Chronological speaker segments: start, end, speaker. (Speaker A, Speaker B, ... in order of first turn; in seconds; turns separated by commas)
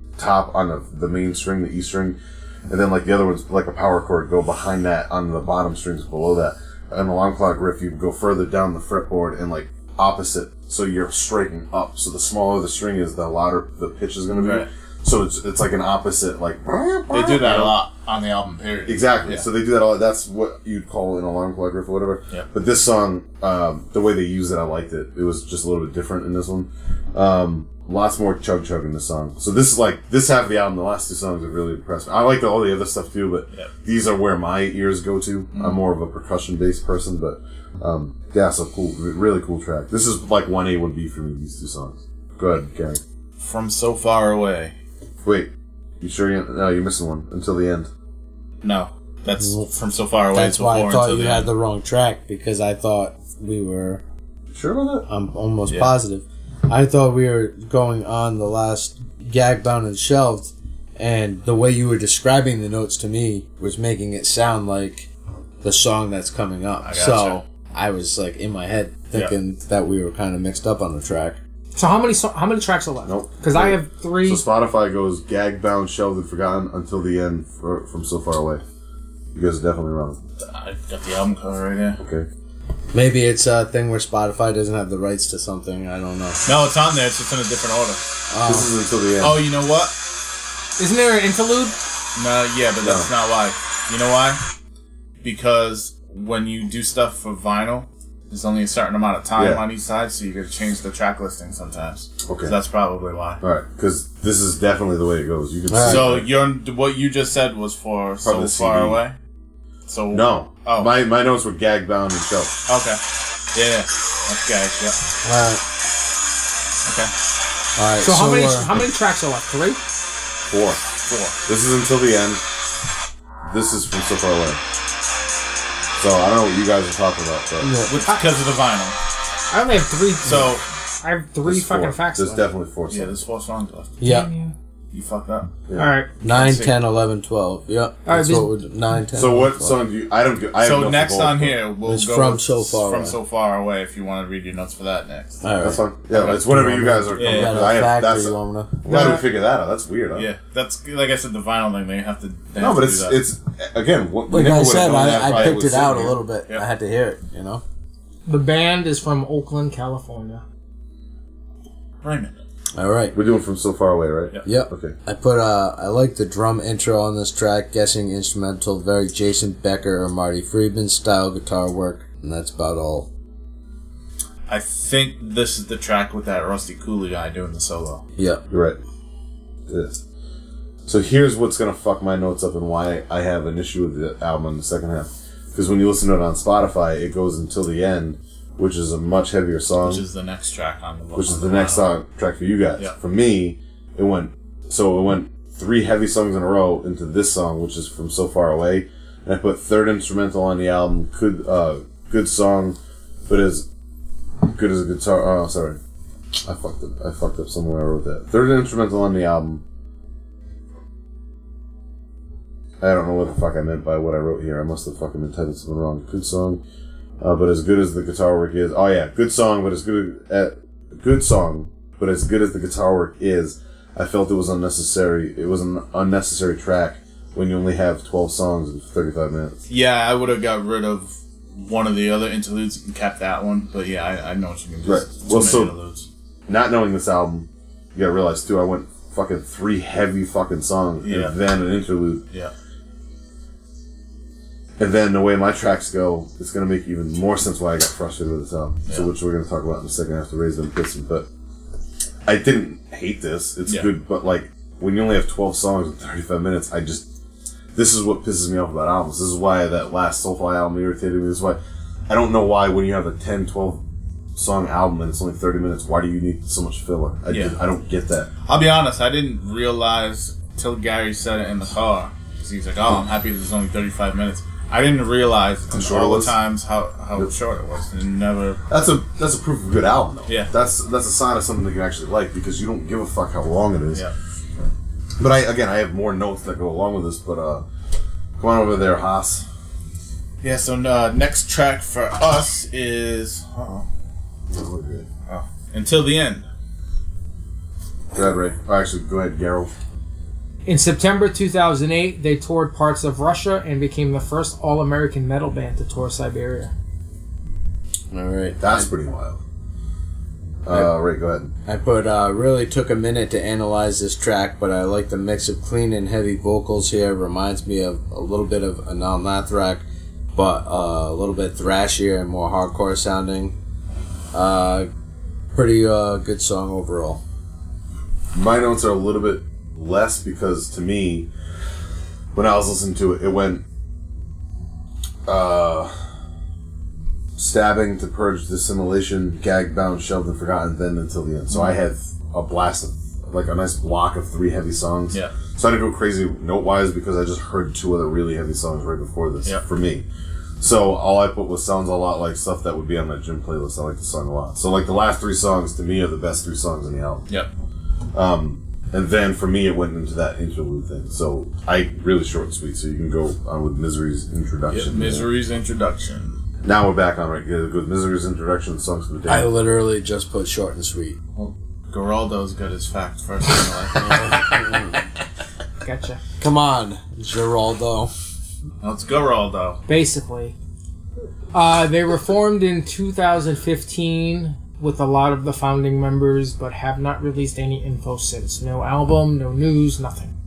Speaker A: 0.2-17.8, Speaker B: 14.3-14.7, Speaker B: 17.1-19.4, Speaker A: 18.9-43.0, Speaker B: 35.5-35.8, Speaker B: 43.4-44.8, Speaker A: 45.2-47.9, Speaker B: 48.6-51.5, Speaker C: 49.4-49.7, Speaker C: 50.3-54.0, Speaker A: 54.5-55.1, Speaker C: 55.1-65.1, Speaker B: 55.7-56.0, Speaker C: 65.6-71.4, Speaker B: 66.8-67.4, Speaker D: 71.8-74.4, Speaker A: 73.0-78.6, Speaker A: 79.3-80.2, Speaker B: 80.4-82.0, Speaker A: 82.0-82.3, Speaker C: 82.9-86.4, Speaker B: 86.5-88.0, Speaker C: 88.3-88.7, Speaker A: 88.4-89.4, Speaker B: 89.2-90.0, Speaker D: 90.8-91.8, Speaker B: 92.2-94.4, Speaker A: 92.8-93.1, Speaker B: 95.2-103.4, Speaker A: 99.4-99.6, Speaker A: 102.3-102.5, Speaker A: 103.4-106.3, Speaker C: 105.7-106.1, Speaker B: 105.8-109.2, Speaker A: 108.2-109.0, Speaker B: 109.9-110.9, Speaker A: 110.1-112.5, Speaker B: 112.7-113.0, Speaker B: 113.5-115.0, Speaker C: 115.2-115.6, Speaker B: 116.8-117.1, Speaker C: 117.8-118.8, Speaker D: 118.0-119.8, Speaker A: 120.5-120.8, Speaker B: 121.0-121.4, Speaker A: 121.5-122.4, Speaker A: 123.5-124.6, Speaker A: 126.0-127.9, Speaker C: 127.6-127.9, Speaker B: 127.9-129.0, Speaker D: 129.5-132.5, Speaker B: 130.2-130.6, Speaker A: 131.4-133.1, Speaker B: 132.9-134.0, Speaker C: 134.0-134.3, Speaker D: 134.0-134.5, Speaker B: 134.9-135.5, Speaker D: 135.8-136.1, Speaker C: 136.2-139.8, Speaker B: 136.2-136.8, Speaker D: 138.1-138.5, Speaker A: 139.1-141.6, Speaker B: 140.6-145.4, Speaker C: 141.9-143.2, Speaker C: 145.4-148.8, Speaker A: 145.6-150.3, Speaker B: 147.1-147.8, Speaker D: 148.9-149.2, Speaker B: 150.2-153.2, Speaker A: 152.6-156.2, Speaker C: 154.3-157.6, Speaker D: 158.3-160.4, Speaker B: 162.0-162.4, Speaker C: 162.8-163.2, Speaker A: 163.1-165.0, Speaker C: 164.4-173.1, Speaker B: 174.5-178.1, Speaker C: 178.2-178.4, Speaker A: 178.5-178.8, Speaker A: 179.7-180.0, Speaker A: 180.9-190.0, Speaker B: 189.8-191.9, Speaker A: 191.2-203.7, Speaker A: 204.4-205.8, Speaker A: 206.4-209.6, Speaker A: 212.8-216.6, Speaker A: 217.2-229.6, Speaker B: 229.7-236.1, Speaker A: 234.8-235.7, Speaker A: 236.5-242.2, Speaker B: 241.0-241.3, Speaker A: 244.8-251.3, Speaker A: 252.3-257.1, Speaker A: 257.8-268.3, Speaker B: 267.3-267.6, Speaker B: 268.4-278.6, Speaker A: 275.7-276.4, Speaker A: 278.7-284.1, Speaker B: 280.3-280.5, Speaker A: 285.2-287.7, Speaker A: 288.4-289.5, Speaker B: 290.4-293.9, Speaker A: 294.5-295.1, Speaker B: 295.3-296.5, Speaker A: 298.1-299.7, Speaker D: 300.7-306.7, Speaker C: 308.1-308.9, Speaker A: 308.6-309.4, Speaker A: 310.6-311.5, Speaker C: 311.6-323.6, Speaker C: 324.3-324.9, Speaker C: 325.5-327.2, Speaker A: 328.3-331.3, Speaker A: 332.3-333.6, Speaker A: 335.3-335.9, Speaker A: 337.4-350.1, Speaker B: 341.5-341.8, Speaker A: 350.6-357.2, Speaker A: 358.1-365.3, Speaker B: 364.7-366.4, Speaker A: 366.6-369.5, Speaker C: 369.3-371.2, Speaker B: 371.4-374.8, Speaker C: 374.1-375.0, Speaker D: 375.8-376.2, Speaker C: 376.4-378.1, Speaker B: 378.8-379.8, Speaker D: 379.9-380.6, Speaker D: 381.5-390.3